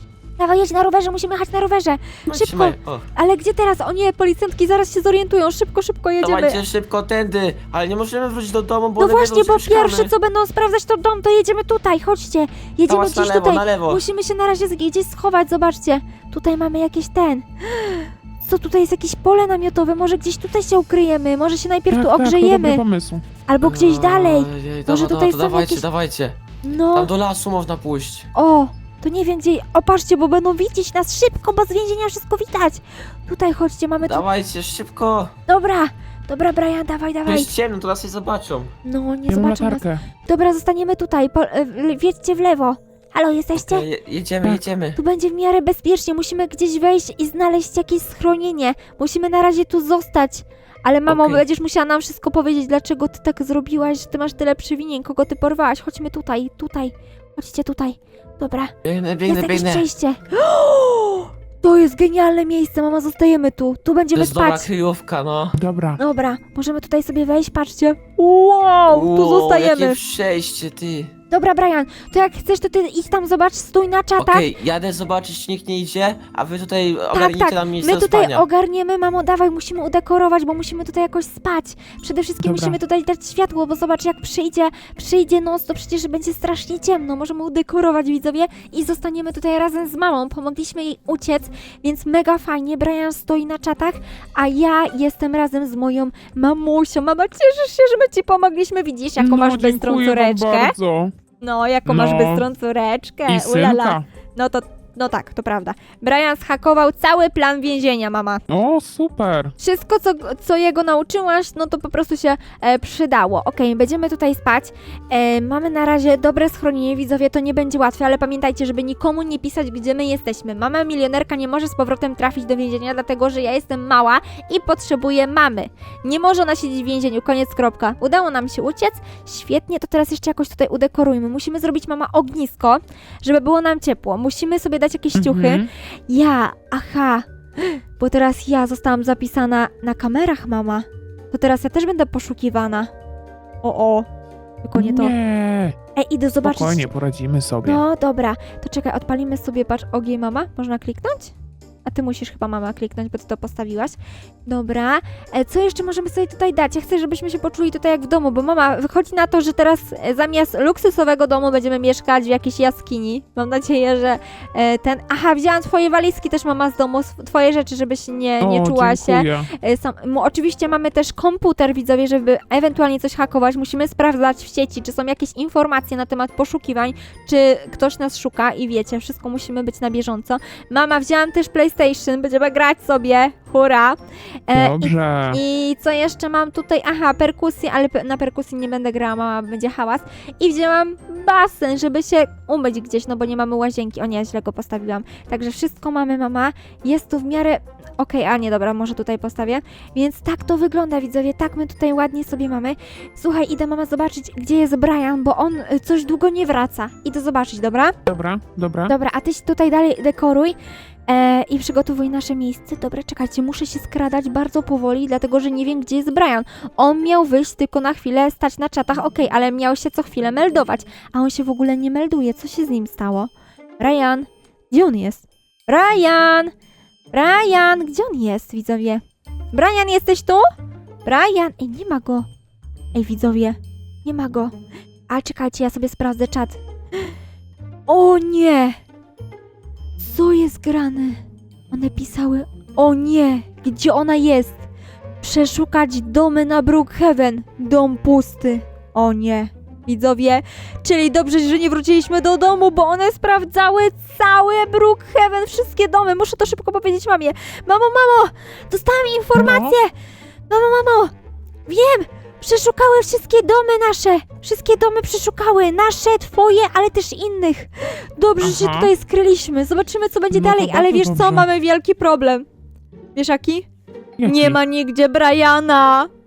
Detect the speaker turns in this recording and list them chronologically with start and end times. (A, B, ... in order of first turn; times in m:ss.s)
0:00.4-0:06.6 A
0:02.3-0:03.0 B
0:06.2-0:10.1 B
0:09.0-0:22.8 A
0:12.9-0:14.0 B
0:21.9-0:23.2 C
0:23.4-0:25.8 A
0:23.6-0:26.4 B
0:26.6-0:27.1 A
0:26.9-0:28.3 B
0:28.3-0:34.2 A
0:34.0-0:35.3 B
0:35.5-0:37.5 A
0:37.2-0:38.7 B
0:38.8-0:43.8 A
0:39.3-0:40.0 C
0:43.6-0:45.0 B
0:45.0-0:58.7 A
0:51.1-0:51.4 B
0:58.8-0:59.8 B
0:59.3-1:04.7 A
1:04.1-1:05.6 B
1:05.6-1:06.0 C
1:06.0-1:10.0 A
1:08.9-1:11.1 B
1:11.3-1:14.5 A
1:14.2-1:18.4 B
1:17.1-1:40.7 A
1:22.4-1:22.8 C
1:39.2-1:41.1 C
1:41.4-1:48.4 A
1:41.9-1:42.5 C
1:43.3-1:44.0 C
1:48.5-1:49.5 C
1:49.6-2:22.9 A
2:15.1-2:15.7 C
2:23.6-2:24.0 A
2:24.6-2:25.1 A
2:24.7-2:25.8 C
2:26.0-2:26.9 A
2:26.4-2:27.8 C
2:27.6-2:31.3 A
2:31.8-3:28.0 A
2:48.4-2:49.5 C
3:04.5-3:05.4 C
3:28.1-3:28.9 C
3:28.8-3:30.6 A
3:31.1-3:46.5 A
3:47.1-3:50.4 A
3:51.0-3:52.3 A
3:52.9-3:54.5 A
3:55.1-3:57.1 A
3:57.9-3:58.8 A
4:00.0-4:04.6 A
4:05.2-4:19.9 A
4:19.3-4:19.8 C
4:20.5-4:21.1 A
4:21.7-4:32.4 A
4:28.4-4:28.9 C
4:30.3-4:31.5 C
4:33.1-4:33.6 A
4:34.2-4:34.6 C
4:34.2-4:36.1 A